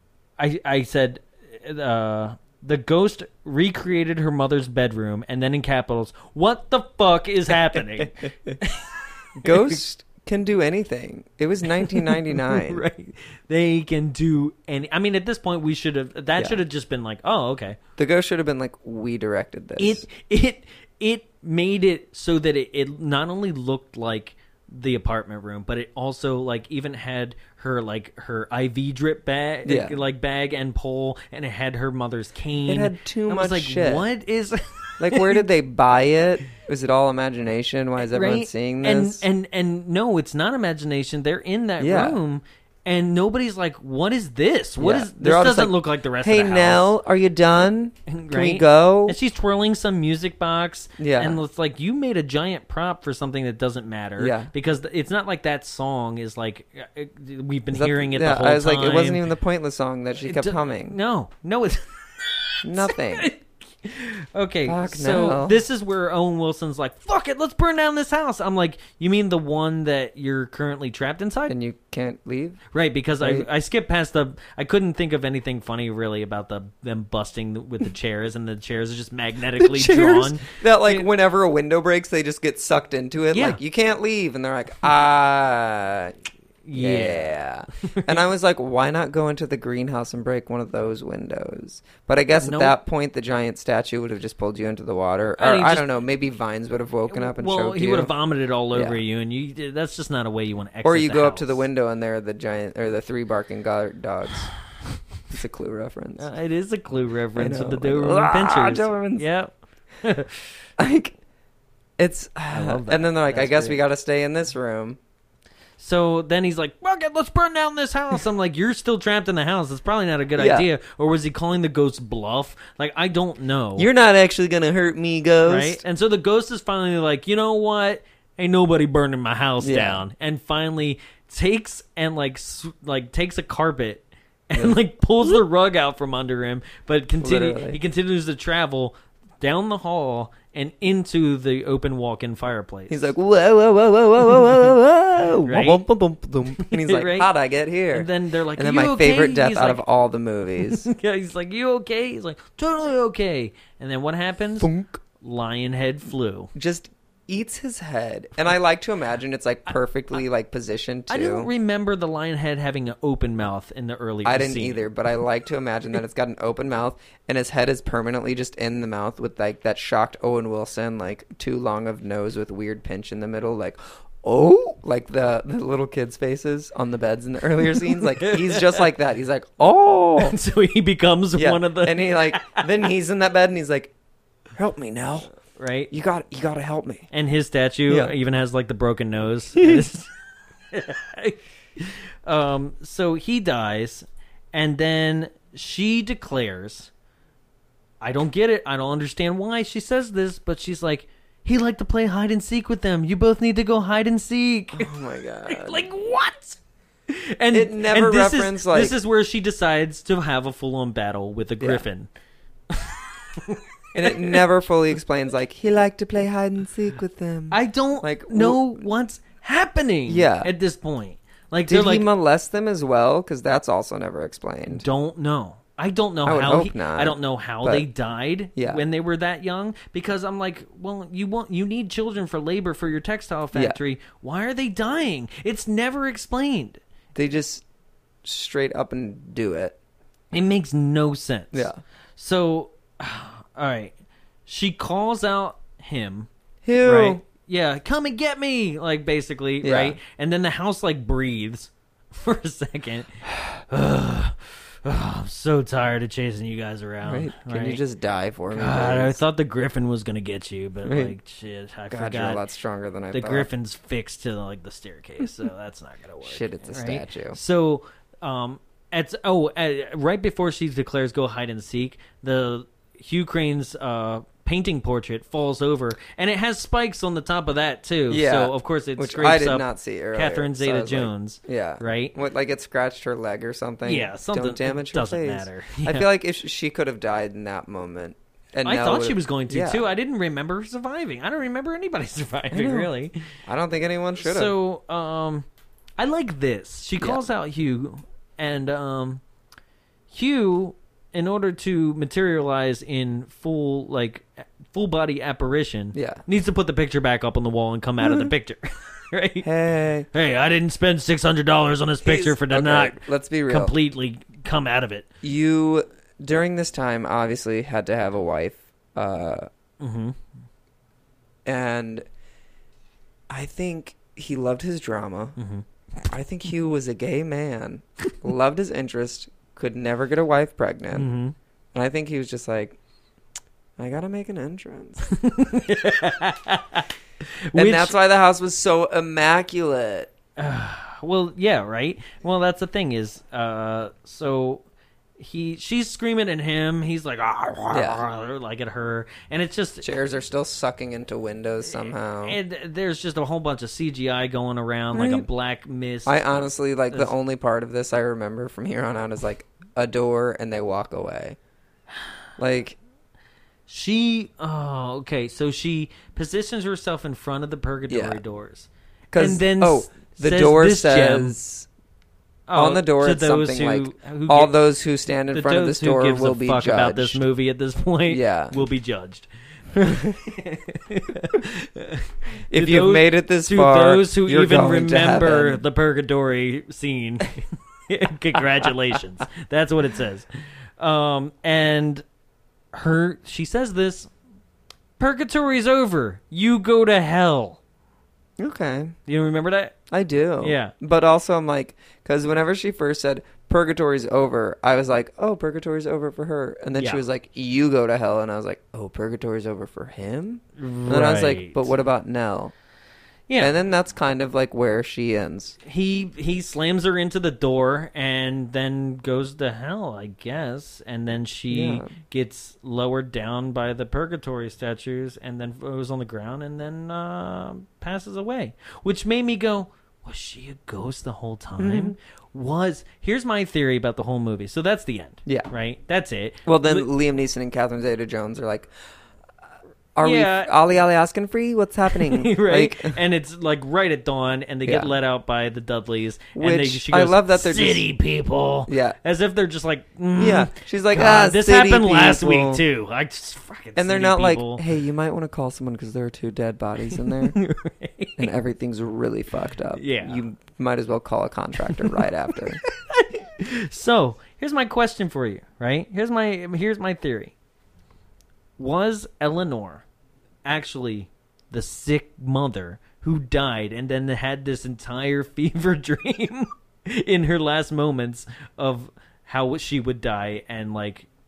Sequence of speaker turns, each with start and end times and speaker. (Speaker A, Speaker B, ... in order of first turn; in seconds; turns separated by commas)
Speaker A: 0.4-9.8, Speaker B: 7.7-8.6, Speaker B: 9.4-12.8, Speaker A: 11.7-17.8, Speaker B: 16.4-16.6, Speaker B: 18.0-20.0, Speaker A: 19.8-35.4, Speaker B: 29.6-29.9, Speaker B: 32.7-34.0, Speaker B: 35.0-39.2, Speaker A: 38.0-46.9, Speaker B: 41.8-42.2, Speaker B: 44.8-49.2, Speaker A: 48.1-59.2, Speaker B: 51.0-51.4, Speaker B: 54.2-54.5, Speaker B: 57.7-61.0, Speaker A: 60.2-71.5, Speaker B: 62.6-63.3, Speaker B: 64.6-65.6, Speaker B: 71.5-72.6, Speaker A: 72.7-81.0, Speaker B: 73.2-73.5, Speaker B: 79.6-86.1, Speaker A: 83.3-83.6, Speaker A: 86.7-87.4, Speaker B: 86.7-98.1, Speaker A: 87.9-88.2, Speaker A: 92.4-92.8, Speaker A: 95.4-95.9, Speaker A: 97.1-101.6, Speaker B: 98.7-99.0, Speaker B: 100.8-104.5, Speaker B: 105.3-106.3, Speaker A: 106.2-109.5, Speaker B: 107.3-109.2, Speaker A: 110.0-110.5, Speaker B: 110.8-111.2, Speaker B: 112.0-115.0, Speaker A: 112.5-113.8, Speaker A: 115.8-123.9, Speaker B: 120.4-120.7, Speaker B: 123.8-125.8, Speaker A: 125.4-143.1, Speaker B: 129.6-130.0, Speaker B: 134.5-135.4, Speaker B: 137.2-137.8, Speaker B: 142.9-150.9, Speaker A: 145.4-145.8, Speaker A: 146.6-147.3, Speaker A: 147.9-149.8, Speaker A: 150.6-156.5, Speaker B: 154.6-155.0, Speaker B: 156.5-161.5, Speaker A: 161.1-164.8, Speaker B: 164.2-180.4, Speaker A: 177.8-178.9, Speaker A: 180.2-182.6, Speaker B: 181.3-183.9, Speaker B: 184.5-185.3, Speaker A: 185.6-185.9, Speaker B: 185.9-187.1, Speaker A: 187.1-190.1, Speaker B: 189.6-189.8, Speaker A: 190.7-196.9, Speaker A: 198.0-204.9, Speaker B: 204.7-205.8, Speaker A: 205.5-206.6, Speaker A: 207.1-212.1, Speaker B: 207.5-208.9, Speaker B: 211.6-211.8, Speaker A: 212.7-214.4, Speaker B: 213.9-218.8, Speaker A: 217.5-222.1, Speaker B: 220.1-220.5, Speaker B: 221.7-224.8, Speaker A: 224.7-236.8, Speaker B: 226.2-227.9, Speaker B: 228.5-228.8, Speaker B: 233.5-233.8, Speaker B: 237.1-237.6, Speaker B: 238.2-239.8, Speaker A: 240.3-243.9, Speaker B: 241.5-241.8, Speaker A: 244.5-246.3, Speaker B: 246.6-247.2, Speaker A: 246.8-257.8, Speaker B: 249.6-250.0, Speaker B: 257.0-259.2, Speaker A: 258.5-262.4, Speaker B: 260.8-261.1, Speaker B: 261.9-263.5, Speaker A: 263.1-282.1, Speaker B: 266.2-267.4, Speaker B: 278.1-289.9, Speaker A: 283.8-286.1, Speaker A: 288.6-293.2, Speaker B: 292.5-292.9, Speaker B: 293.4-294.6, Speaker A: 294.1-295.4, Speaker A: 296.0-299.2, Speaker A: 300.1-309.5, Speaker B: 305.9-306.2, Speaker B: 308.0-308.3, Speaker B: 309.4-310.1, Speaker A: 310.1-315.1, Speaker B: 312.0-313.7, Speaker B: 315.2-319.5, Speaker A: 319.8-320.2, Speaker B: 321.4-322.1, Speaker B: 323.3-325.4, Speaker A: 325.4-325.6, Speaker B: 326.0-331.1, Speaker A: 330.9-331.3, Speaker B: 331.7-332.8, Speaker B: 333.8-335.0, Speaker A: 335.1-336.9, Speaker A: 337.5-337.9, Speaker B: 337.5-340.1, Speaker A: 340.4-344.6, Speaker A: 345.2-349.9, Speaker B: 347.7-348.0, Speaker B: 349.8-352.4, Speaker A: 352.2-357.1, Speaker B: 354.9-355.3, Speaker B: 356.1-361.4, Speaker B: 362.4-362.8, Speaker A: 363.7-371.4, Speaker B: 367.9-368.2, Speaker B: 369.1-371.7, Speaker A: 372.5-374.6, Speaker B: 372.5-377.2, Speaker A: 375.3-390.3, Speaker B: 378.1-378.6, Speaker B: 382.5-385.6, Speaker A: 390.8-392.0, Speaker A: 392.7-394.1, Speaker A: 395.0-397.6, Speaker B: 398.4-398.9, Speaker A: 399.1-399.7, Speaker B: 399.9-412.5, Speaker A: 400.4-400.7, Speaker A: 406.8-407.0, Speaker A: 410.6-411.8, Speaker A: 413.3-413.5, Speaker B: 413.4-415.6, Speaker A: 415.6-436.9, Speaker B: 421.5-421.9, Speaker B: 431.6-431.9, Speaker B: 435.2-435.5, Speaker B: 436.4-438.7, Speaker B: 439.9-443.0, Speaker A: 440.0-440.5, Speaker A: 441.9-454.6, Speaker B: 444.6-444.9, Speaker B: 446.3-447.9, Speaker B: 448.7-449.0, Speaker B: 450.1-452.6, Speaker B: 453.8-457.4, Speaker A: 456.9-458.3, Speaker B: 458.2-462.6, Speaker A: 459.7-460.2, Speaker A: 461.7-467.3, Speaker A: 468.6-469.8, Speaker A: 470.4-481.1